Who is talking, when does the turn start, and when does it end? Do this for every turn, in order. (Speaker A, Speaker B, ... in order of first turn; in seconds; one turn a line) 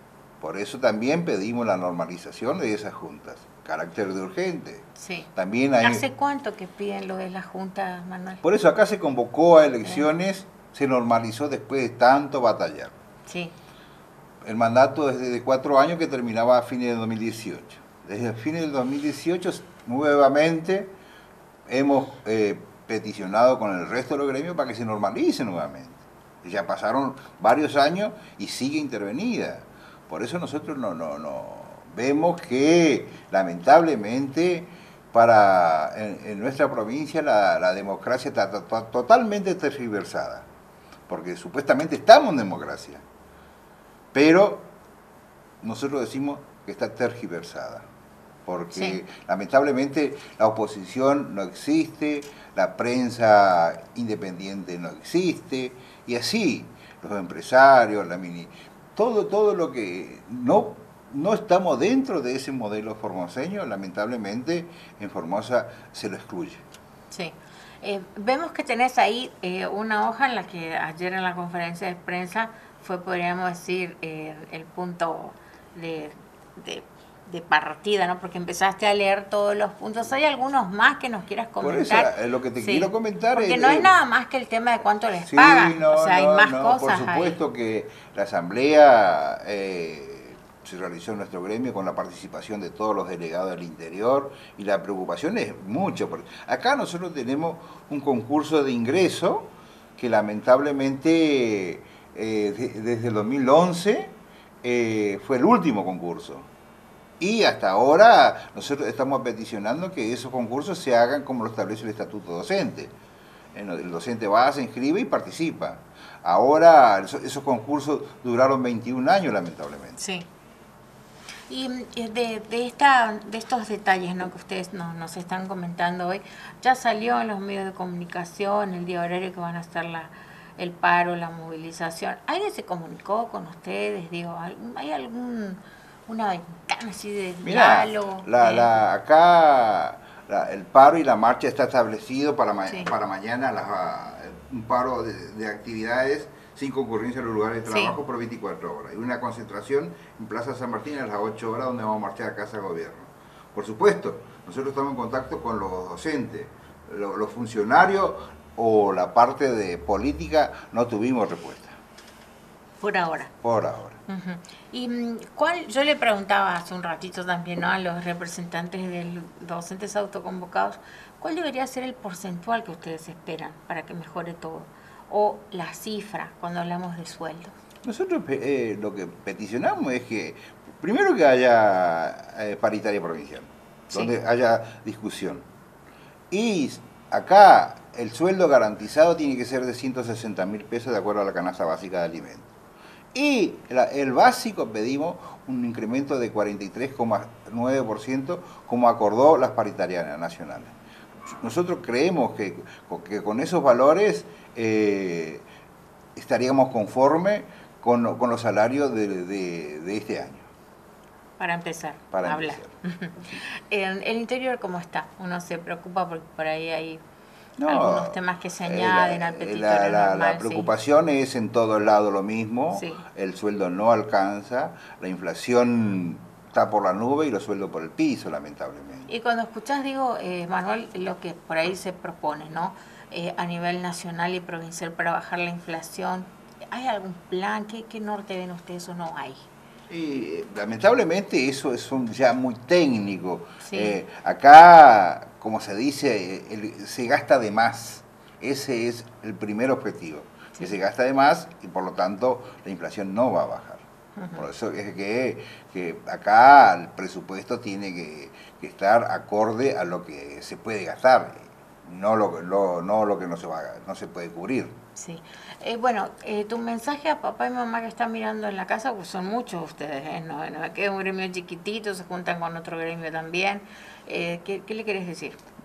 Speaker A: 0.4-6.0
Speaker B: 5.0-5.3
Speaker B: 5.8-8.4
Speaker A: 8.4-12.9
Speaker B: 13.2-13.5
Speaker A: 14.4-20.9
Speaker A: 21.7-40.5
Speaker A: 41.1-43.0
Speaker A: 44.1-44.7
Speaker A: 45.6-47.9
Speaker A: 48.5-66.6
Speaker B: 48.7-49.0
Speaker B: 67.1-87.4
Speaker A: 81.6-83.9
Speaker A: 85.2-106.5
Speaker A: 107.2-112.9
Speaker A: 113.5-120.0
Speaker B: 120.0-120.3
Speaker B: 121.5-138.7
Speaker A: 137.4-161.8
Speaker B: 147.7-148.0
Speaker B: 162.8-163.3
Speaker A: 163.4-164.0
Speaker B: 164.1-177.5
Speaker A: 177.8-185.4
Speaker A: 186.3-192.5
Speaker A: 193.1-200.7
Speaker A: 201.3-205.4
Speaker A: 206.2-210.5
Speaker B: 211.4-217.0
Speaker A: 212.1-212.7
Speaker A: 217.6-229.1
Speaker B: 217.6-220.7
Speaker B: 222.7-223.0
Speaker B: 229.1-239.4
Speaker A: 239.9-253.8
Speaker B: 243.6-244.0
Speaker B: 254.2-254.4
Speaker A: 254.3-264.7
Speaker B: 264.9-275.4